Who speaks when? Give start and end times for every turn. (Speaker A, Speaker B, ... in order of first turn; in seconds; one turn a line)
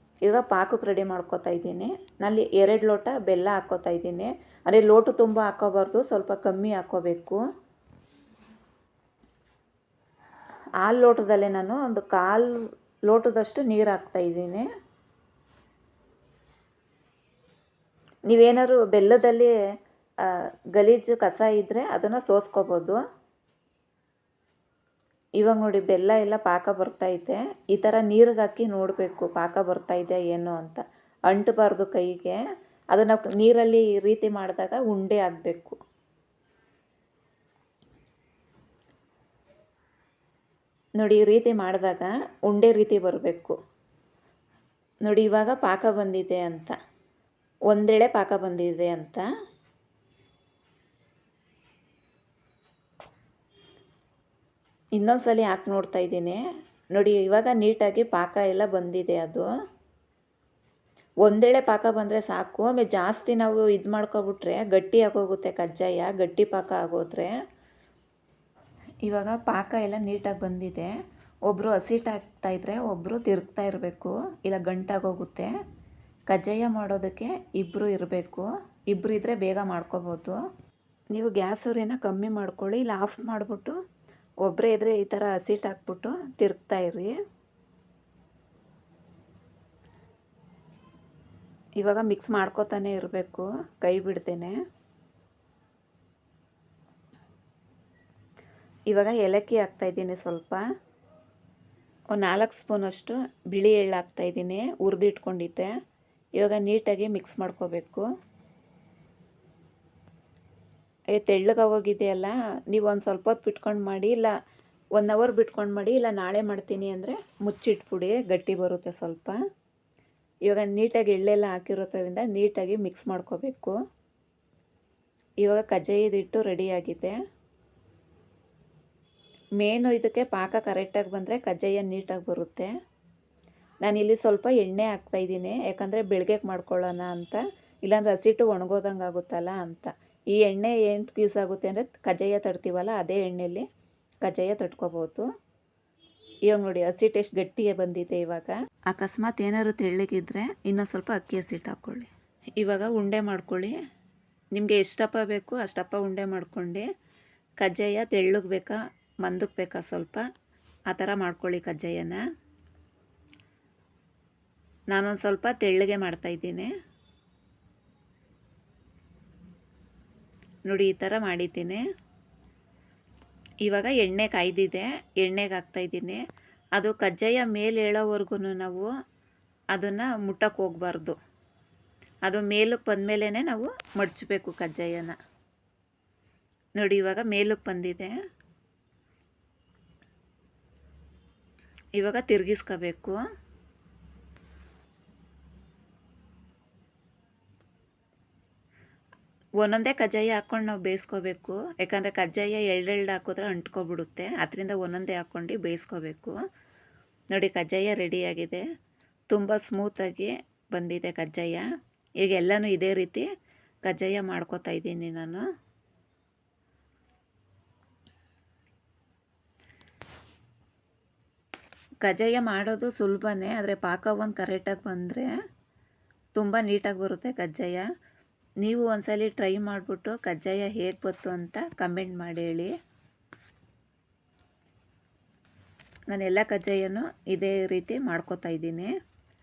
Speaker A: 0.2-7.4
Speaker A: 10.8-12.5
Speaker A: 13.1-14.7
Speaker A: 18.3-19.5
Speaker A: 20.2-23.0
Speaker A: 25.4-32.4
Speaker A: 32.9-35.8
Speaker A: 41.0-43.6
Speaker A: 45.0-46.7
Speaker A: 47.7-49.2
Speaker A: 55.0-56.4
Speaker A: 56.9-59.5
Speaker A: 61.2-67.3
Speaker A: 69.0-70.9
Speaker A: 71.5-75.5
Speaker A: 76.3-80.4
Speaker A: 81.1-83.7
Speaker A: 84.4-87.2
Speaker A: 91.8-94.5
Speaker A: 98.9-100.6
Speaker A: 102.1-105.7
Speaker A: 106.4-108.1
Speaker A: 111.1-114.3
Speaker A: 115.0-119.4
Speaker A: 120.5-123.8
Speaker A: 125.4-127.2
Speaker A: 129.6-132.7
Speaker A: 133.8-143.6
Speaker A: 144.2-145.2
Speaker A: 146.5-153.7
Speaker A: 154.5-156.9
Speaker A: 157.6-160.2
Speaker A: 160.9-162.2
Speaker A: 164.9-166.7
Speaker A: 170.7-171.8
Speaker A: 173.6-176.2
Speaker A: 176.8-178.9
Speaker A: 179.7-181.2
Speaker A: 182.3-185.2
Speaker A: 186.8-188.1
Speaker A: 192.0-193.2
Speaker A: 199.6-206.4
Speaker A: 207.3-208.6
Speaker A: 209.3-211.7
Speaker A: 212.2-213.3
Speaker A: 213.8-215.4
Speaker A: 222.0-225.3
Speaker A: 226.3-227.8
Speaker A: 228.6-232.7
Speaker A: 236.1-238.9